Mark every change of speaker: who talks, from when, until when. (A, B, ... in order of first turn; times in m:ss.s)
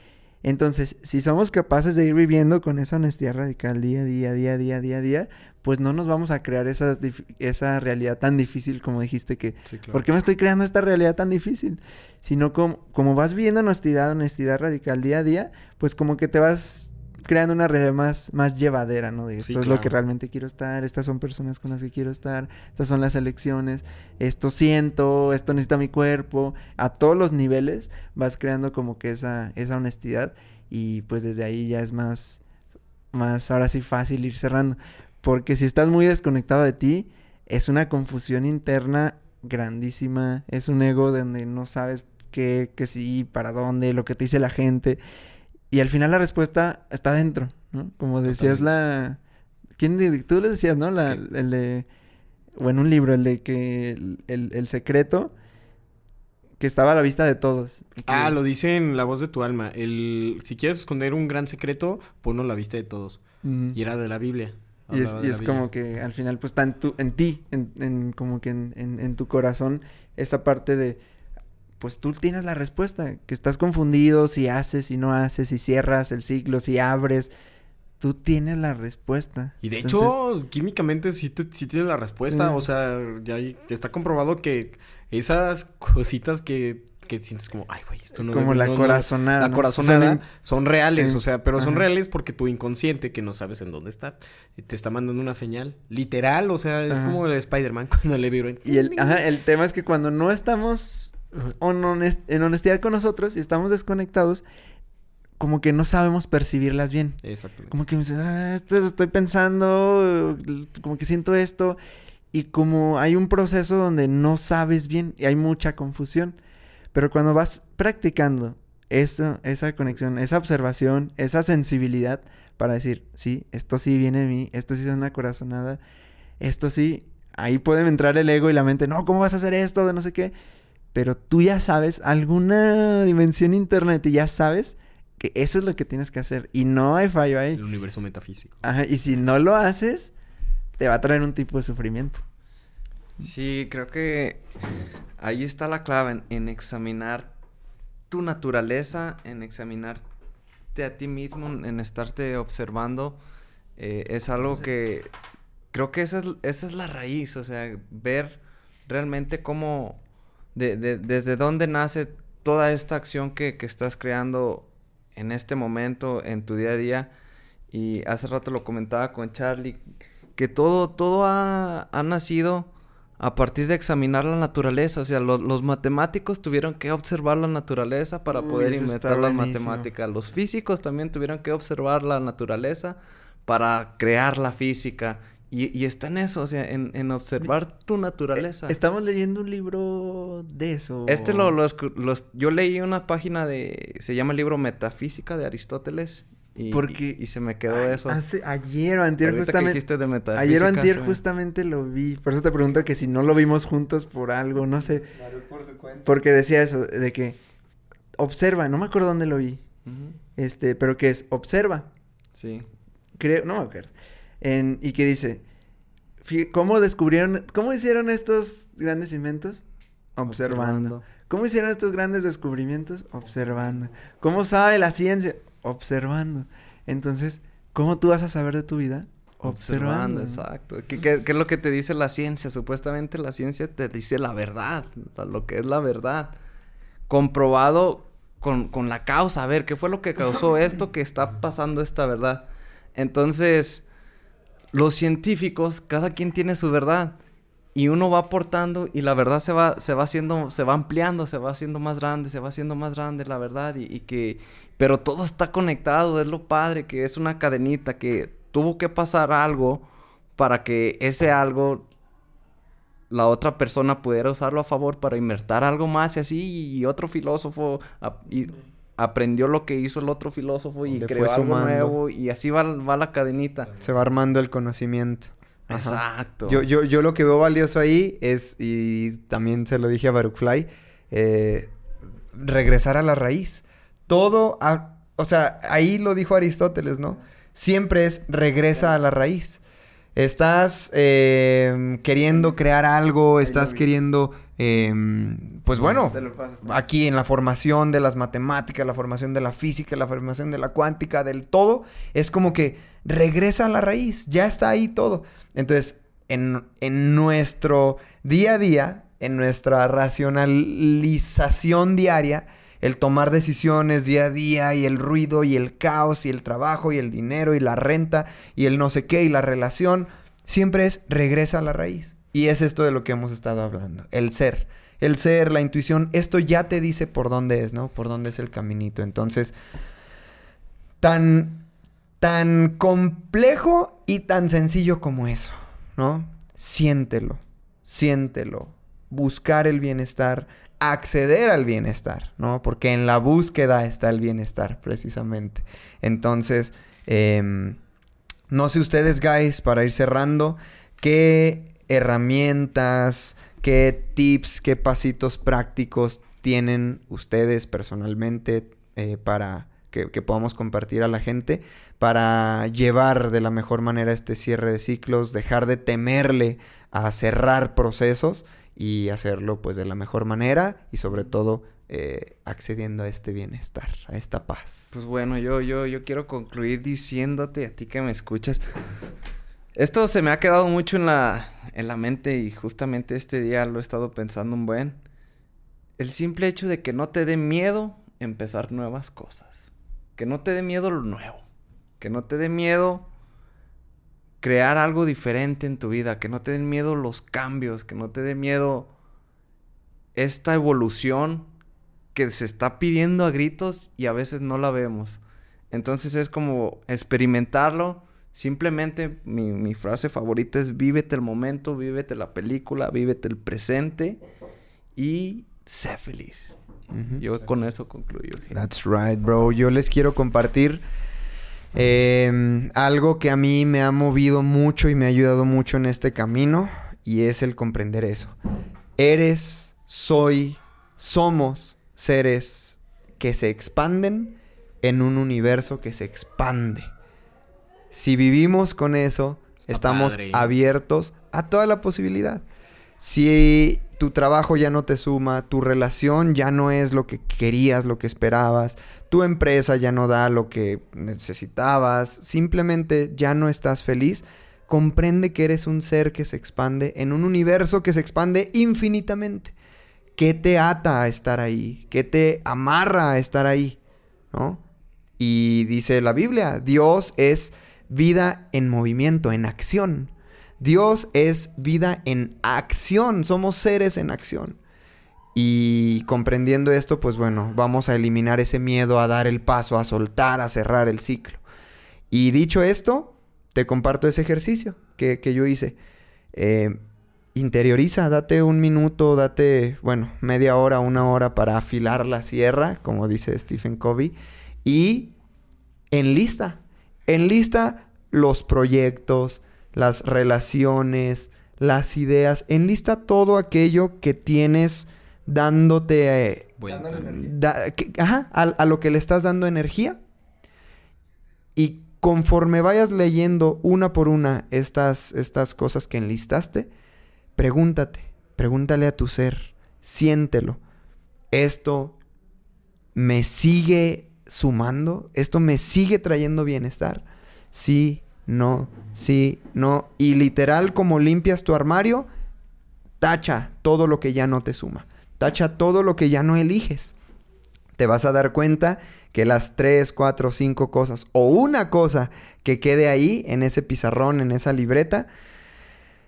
0:00.4-0:32.4 A
0:09.7-0:10.0 B
0:19.4-0:20.0 B
0:33.1-0:45.0 A
0:45.7-0:49.2 A
0:48.3-0:48.7 B
0:49.8-0:51.9 A
0:52.6-0:55.3 A
0:56.6-0:58.4 A
0:58.1-1:03.2 B
1:03.4-1:03.8 A
1:03.7-1:05.7 B
1:04.9-1:11.0 A
1:11.8-1:17.3 A
1:18.0-1:20.1 A
1:19.6-1:39.2 B
1:22.3-1:22.6 A
1:28.2-1:30.2 A
1:31.0-1:31.8 A
1:36.9-1:37.2 A
1:38.6-1:44.4 A
1:45.4-1:51.8 A
1:47.2-1:47.8 B
1:52.3-1:56.4 A
1:56.9-2:05.8 A
2:06.4-2:10.3 A
2:10.9-2:17.6 A
2:17.5-2:18.6 B
2:18.6-2:20.1 A
2:20.8-2:22.2 A
2:23.2-2:24.4 C
2:25.2-2:27.3 C
2:28.1-2:30.0 C
2:30.7-2:33.2 C
2:33.8-2:35.1 C
2:35.7-2:40.0 C
2:40.6-2:47.1 C
2:47.7-2:49.8 C
2:50.4-3:08.8 C
2:58.3-2:59.9 A
3:08.4-3:11.6 A
3:11.1-3:18.2 C
3:16.7-3:17.2 A
3:17.7-3:19.8 A
3:19.2-3:21.2 C
3:20.3-3:25.1 A
3:25.1-3:26.2 D
3:26.0-3:27.4 A
3:28.2-3:29.6 A
3:29.8-3:30.2 C
3:30.4-3:31.9 A
3:32.3-3:32.7 C
3:33.2-3:35.4 A
3:36.2-3:39.6 A
3:40.2-3:50.4 A
3:40.3-3:41.1 C
3:49.4-3:56.4 C
3:57.1-4:03.8 C
4:04.7-4:07.2 C
4:07.8-4:21.9 C
4:23.1-4:33.8 C
4:30.9-4:32.0 D
4:33.8-4:41.7 D
4:35.7-4:36.6 C
4:42.3-4:49.6 D
4:50.2-5:29.5 D
4:53.4-4:53.8 A
4:55.8-4:56.8 A
5:31.0-5:31.7 D
5:32.2-5:47.8 D
5:48.5-6:14.9 D
6:14.9-6:18.7 C
6:19.8-6:25.0 C
6:26.0-6:31.4 C
6:32.0-6:33.1 C
6:34.4-6:38.9 C
6:40.2-6:41.5 C
6:42.1-6:54.2 C
6:55.0-6:56.6 C
6:56.9-6:57.2 D
6:57.1-6:58.6 C
6:58.5-7:00.8 D
7:01.7-7:08.4 D
7:09.0-7:16.9 D
7:17.9-7:22.4 D
7:19.6-7:20.5 B
7:23.0-7:39.5 D
7:40.2-7:43.8 D
7:44.3-7:44.6 D
7:45.2-7:54.6 D
7:55.3-8:01.4 D
8:02.1-8:05.8 D
8:06.3-8:06.8 D
8:07.3-8:15.1 D
8:15.9-8:30.0 D
8:26.6-8:27.0 B
8:26.6-8:27.3 A
8:31.6-8:36.7 D
8:37.4-8:40.6 D
8:41.3-8:42.0 D
8:43.0-8:52.1 D
8:53.0-8:57.0 D
8:57.8-9:05.1 D